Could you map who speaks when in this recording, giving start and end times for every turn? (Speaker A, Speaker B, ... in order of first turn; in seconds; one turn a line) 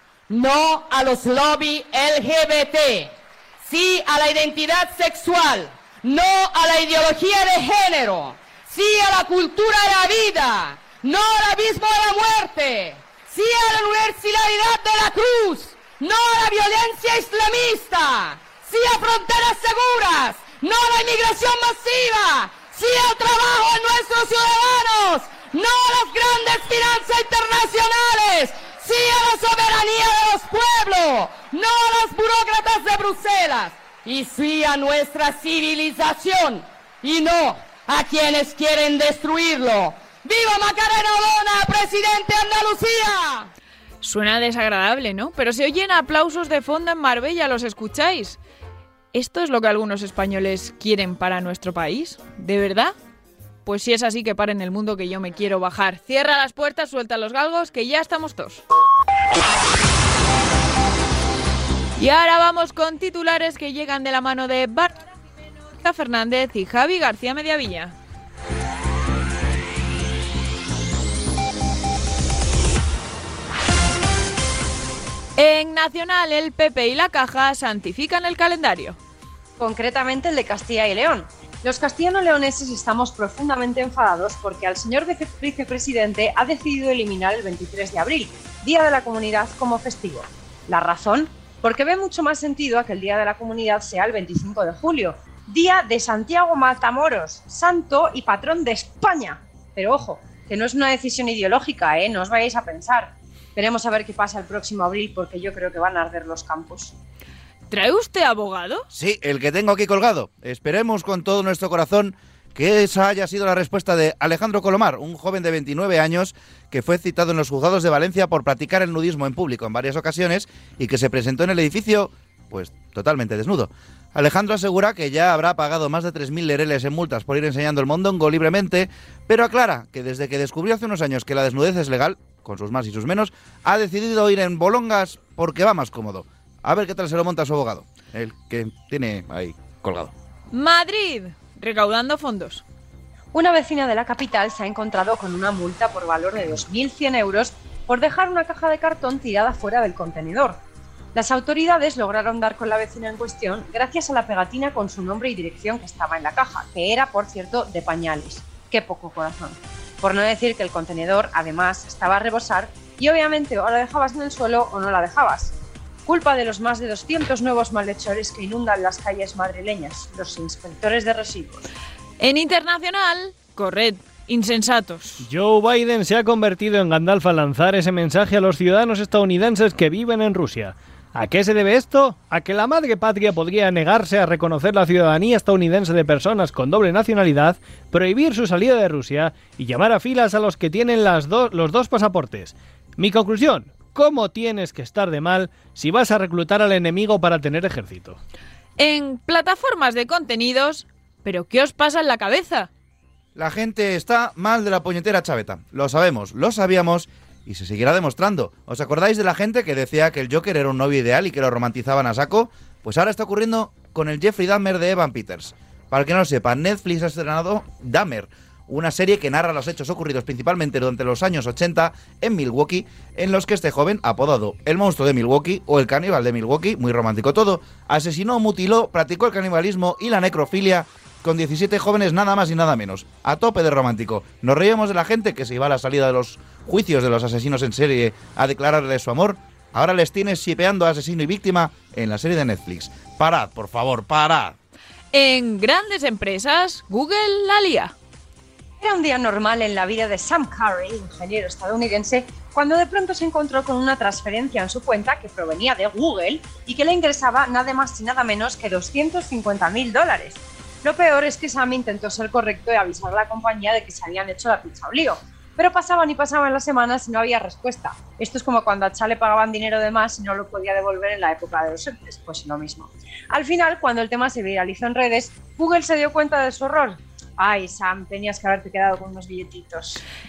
Speaker A: 0.3-43.5
Speaker B: 44.0-48.4
Speaker B: 49.1-52.9
Speaker B: 53.6-58.6
Speaker B: 62.0-68.0
Speaker B: 75.4-79.0
Speaker C: 79.6-106.9
Speaker B: 107.7-108.9
Speaker D: 108.9-140.1
Speaker B: 140.5-142.6
Speaker C: 143.3-150.6
Speaker C: 151.2-165.6
Speaker C: 166.1-171.7
Speaker B: 172.2-175.2
Speaker E: 175.2-198.2
Speaker B: 198.8-202.7
Speaker D: 203.3-244.6
Speaker B: 245.1-247.9
Speaker C: 248.8-280.0